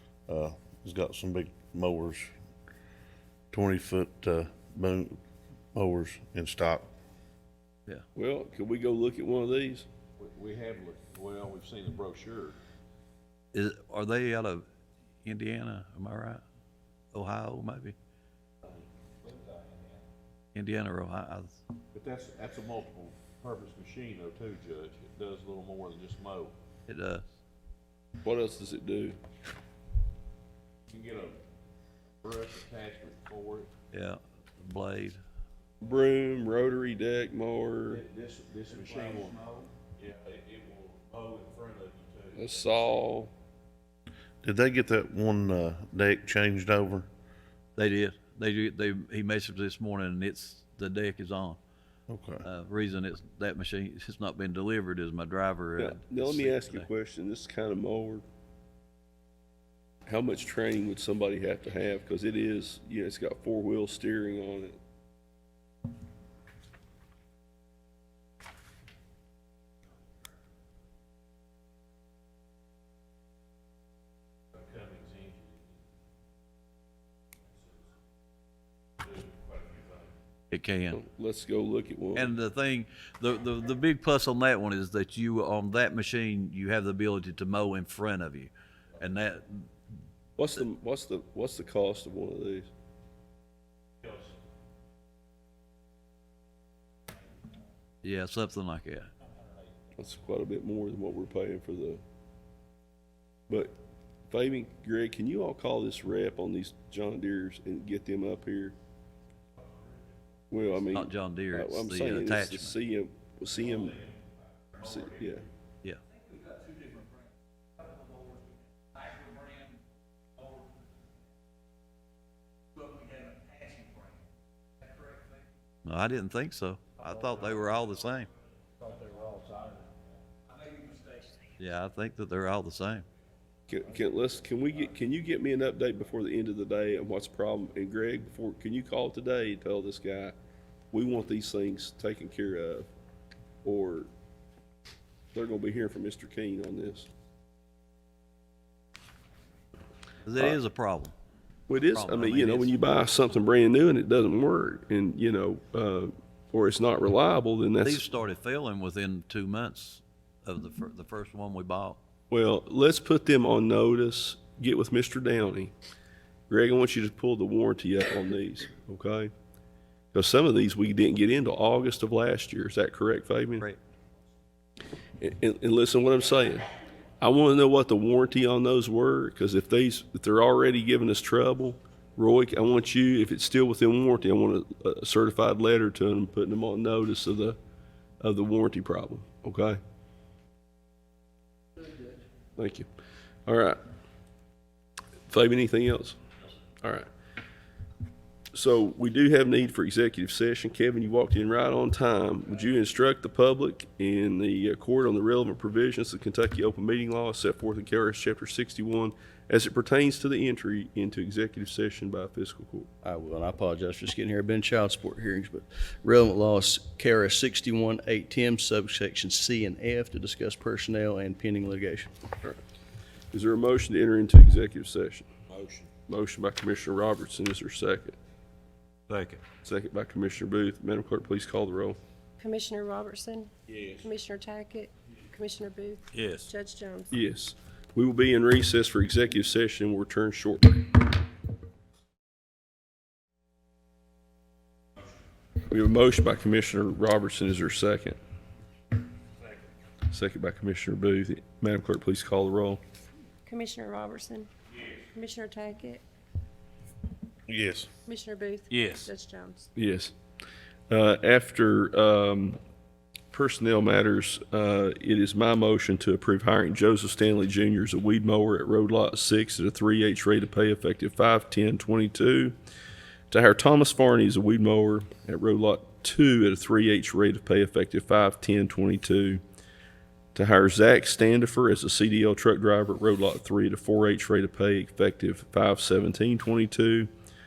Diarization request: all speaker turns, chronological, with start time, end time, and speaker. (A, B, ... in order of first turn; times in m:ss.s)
0:00.3-0:02.3 A
0:03.5-0:05.2 A
0:05.7-0:06.9 A
0:08.1-0:09.9 B
0:10.2-0:12.6 C
0:13.5-0:14.6 D
0:15.2-0:16.4 D
0:17.1-0:18.0 D
0:20.5-0:21.6 D
0:21.9-0:26.5 C
0:26.9-0:27.2 D
0:28.2-0:29.2 B
0:30.9-0:31.4 C
0:32.2-0:33.7 C
0:33.9-0:35.2 D
0:35.8-0:38.0 B
0:37.9-0:43.0 C
0:42.3-0:43.3 B
0:44.4-0:47.1 A
0:47.8-0:51.6 D
0:52.1-0:52.4 A
0:52.4-0:56.9 D
0:55.8-0:58.2 B
1:00.1-1:04.8 B
1:14.6-1:15.6 C
1:19.0-1:20.1 C
1:20.5-1:21.0 D
1:20.9-1:22.3 B
1:22.1-1:29.7 D
1:30.4-1:32.7 B
1:38.0-1:39.1 D
1:40.0-1:42.0 B
1:44.3-1:48.8 B
1:50.5-1:54.0 B
1:50.9-1:52.8 D
1:54.8-1:55.5 B
2:05.8-2:08.3 D
2:11.6-2:13.0 D
2:13.7-2:20.3 B
2:20.9-2:22.9 B
2:23.6-2:24.1 B
2:25.3-2:27.1 B
2:30.2-2:31.1 D
2:31.7-2:38.0 B
2:31.8-2:32.7 D
2:37.8-2:42.0 D
2:42.3-2:45.7 B
2:46.5-2:49.3 B
2:50.1-2:53.6 B
2:55.2-2:56.6 B
2:57.2-3:07.6 B
3:08.2-3:09.8 B
3:12.6-3:12.9 B
3:13.4-3:13.8 B
3:15.3-3:16.2 B
3:16.8-3:17.1 B
3:18.5-3:32.9 B
3:33.0-3:42.2 E
3:43.3-3:45.3 B
3:45.5-3:45.9 C
3:46.1-3:48.2 B
3:49.1-3:49.4 C
3:49.6-3:52.0 B
3:52.4-3:57.1 F
3:53.7-3:54.0 C
3:56.1-3:56.5 C
3:57.1-4:00.9 B
4:05.7-4:08.2 B
4:10.1-4:12.8 B
4:13.4-4:14.5 F
4:15.1-4:16.0 F
4:17.5-4:17.9 A
4:18.0-4:19.7 F
4:18.7-4:19.0 C
4:19.8-4:20.1 B
4:20.9-4:22.6 B
4:23.3-4:32.5 B
4:33.3-4:39.4 B
4:40.3-4:47.1 B